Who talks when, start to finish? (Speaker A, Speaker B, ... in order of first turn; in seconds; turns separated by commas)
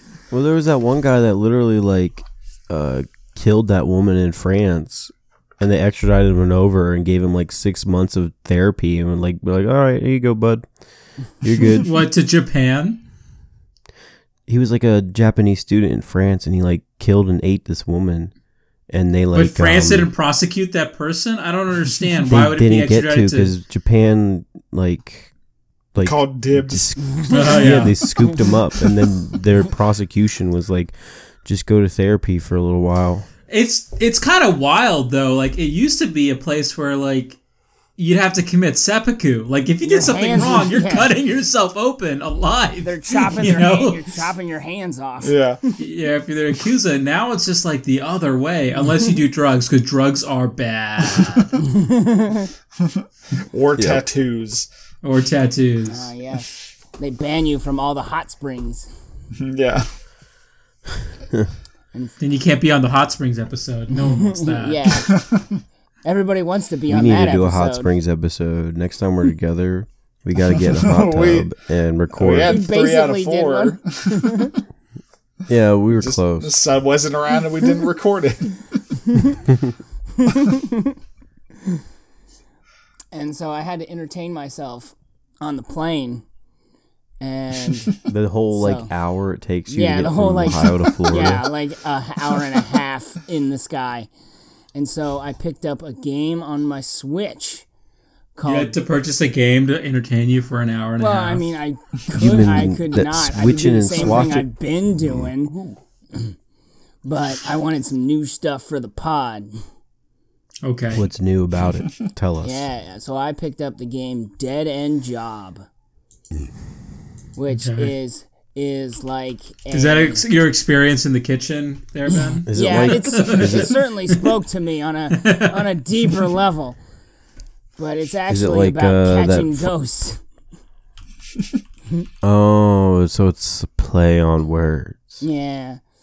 Speaker A: 0.3-10.7, Speaker A: 11.4-11.9, Speaker B: 11.8-13.0, Speaker A: 14.5-18.3, Speaker A: 18.9-20.1, Speaker B: 19.3-23.5, Speaker A: 22.3-25.3, Speaker A: 25.9-33.3, Speaker C: 26.0-27.1, Speaker B: 27.3-28.0, Speaker D: 27.3-28.5, Speaker B: 33.5-37.4, Speaker B: 38.0-44.0, Speaker D: 39.9-41.1, Speaker D: 42.8-45.4, Speaker C: 45.2-45.6, Speaker B: 45.8-51.6, Speaker D: 51.5-52.5, Speaker C: 52.8-54.7, Speaker A: 53.8-54.0, Speaker B: 55.0-56.1, Speaker D: 55.9-58.9, Speaker C: 59.4-59.9, Speaker B: 62.2-64.8, Speaker D: 64.0-65.2, Speaker C: 65.1-65.4, Speaker D: 66.0-67.9, Speaker A: 66.9-72.6, Speaker C: 70.7-71.5, Speaker C: 72.1-74.5, Speaker D: 72.3-74.5, Speaker A: 75.5-76.6, Speaker C: 76.0-78.8, Speaker D: 80.4-80.9, Speaker D: 83.1-86.2, Speaker D: 87.2-87.9, Speaker A: 88.0-91.5, Speaker D: 88.5-88.9, Speaker D: 89.7-94.1, Speaker D: 94.7-97.7, Speaker D: 98.3-98.7, Speaker B: 98.4-101.5, Speaker D: 101.0-105.5, Speaker A: 102.1-105.8, Speaker D: 107.0-109.6, Speaker B: 110.6-111.1, Speaker A: 110.9-112.6, Speaker D: 112.4-115.7, Speaker D: 117.3-120.2, Speaker B: 117.5-117.9, Speaker B: 119.7-124.2, Speaker A: 122.5-123.7, Speaker D: 122.5-126.8, Speaker B: 125.1-125.7, Speaker D: 127.8-130.2, Speaker A: 128.3-129.7, Speaker A: 132.2-135.2, Speaker D: 135.2-135.8